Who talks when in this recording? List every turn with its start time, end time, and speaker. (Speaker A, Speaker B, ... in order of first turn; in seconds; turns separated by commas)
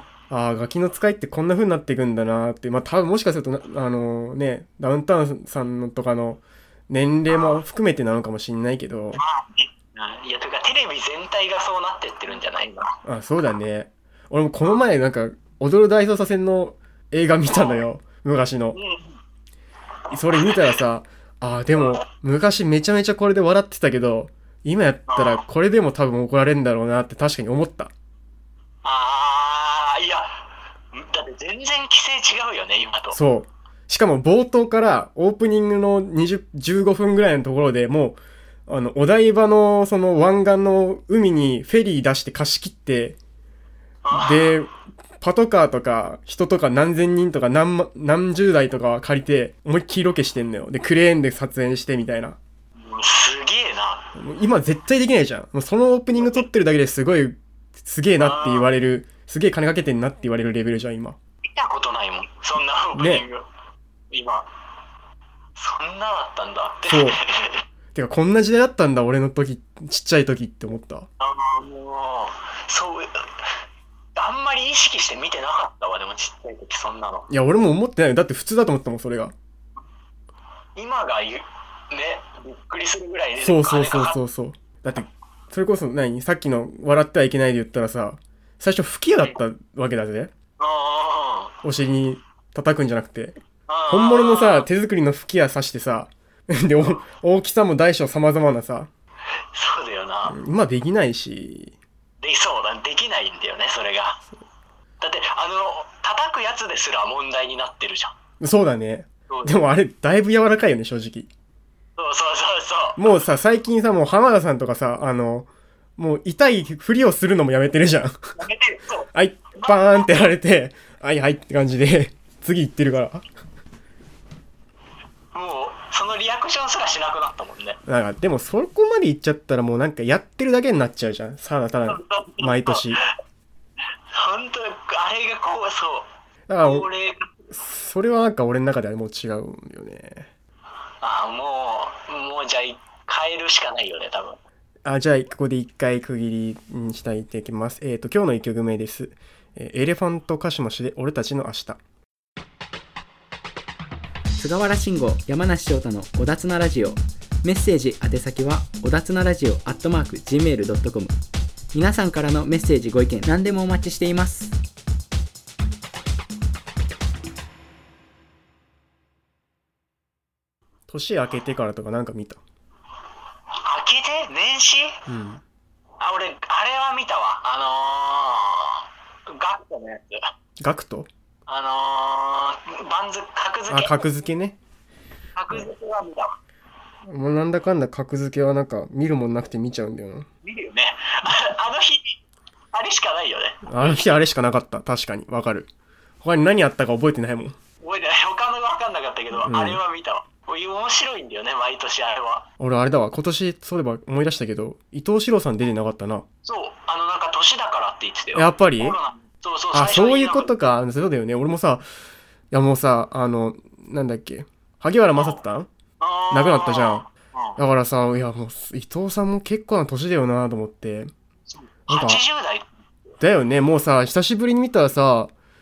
Speaker A: 0.3-9.2, Speaker B: 9.2-13.0, Speaker A: 13.1-18.8, Speaker B: 17.5-17.8, Speaker B: 18.7-19.2, Speaker A: 20.1-27.9, Speaker B: 20.4-20.7, Speaker B: 25.1-25.4, Speaker B: 28.8-33.2, Speaker A: 33.1-43.2, Speaker B: 44.0-44.6, Speaker A: 44.1-52.4, Speaker B: 52.8-54.1, Speaker A: 54.1-61.2, Speaker B: 58.2-58.7, Speaker B: 61.4-63.5, Speaker A: 63.0-63.2, Speaker B: 64.1-64.5, Speaker B: 65.6-67.6, Speaker A: 66.9-67.2, Speaker A: 67.9-71.1, Speaker B: 71.2-73.5, Speaker B: 74.2-77.3, Speaker A: 77.3-79.3, Speaker B: 80.8-84.2, Speaker A: 83.4-90.3, Speaker B: 90.6-91.5, Speaker A: 91.6-93.4, Speaker B: 93.7-94.7, Speaker A: 93.9-98.9, Speaker B: 99.5-100.4, Speaker A: 100.3-101.8, Speaker B: 102.2-104.2, Speaker B: 105.0-108.2, Speaker A: 108.4-111.3, Speaker B: 109.3-109.6, Speaker B: 112.0-113.0, Speaker A: 113.0-118.3, Speaker B: 118.4-120.1, Speaker A: 119.1-123.2, Speaker B: 125.3-127.8, Speaker A: 127.9-133.0, Speaker B: 131.9-133.1, Speaker B: 134.1-136.1, Speaker A: 136.5-136.9, Speaker B: 136.6-137.4, Speaker A: 137.5-140.3, Speaker B: 141.0-144.4, Speaker A: 144.8-151.8, Speaker C: 154.4-161.2, Speaker C: 161.7-164.6, Speaker A: 170.9-172.4, Speaker B: 173.6-175.0, Speaker A: 175.1-175.4, Speaker B: 176.0-180.2, Speaker A: 180.6-181.1, Speaker B: 181.5-184.1, Speaker A: 183.7-184.6, Speaker B: 185.4-186.4, Speaker A: 187.1-190.3, Speaker B: 190.4-192.2, Speaker B: 192.7-194.1, Speaker A: 193.7-195.7, Speaker A: 196.2-197.6, Speaker B: 197.8-202.5, Speaker A: 199.4-199.8, Speaker A: 202.6-206.3, Speaker B: 206.4-210.5, Speaker A: 208.3-209.0, Speaker A: 209.7-211.8, Speaker A: 212.5-215.7, Speaker B: 216.0-217.6, Speaker A: 216.3-221.1, Speaker B: 221.5-222.7, Speaker A: 221.9-222.2, Speaker A: 223.2-225.3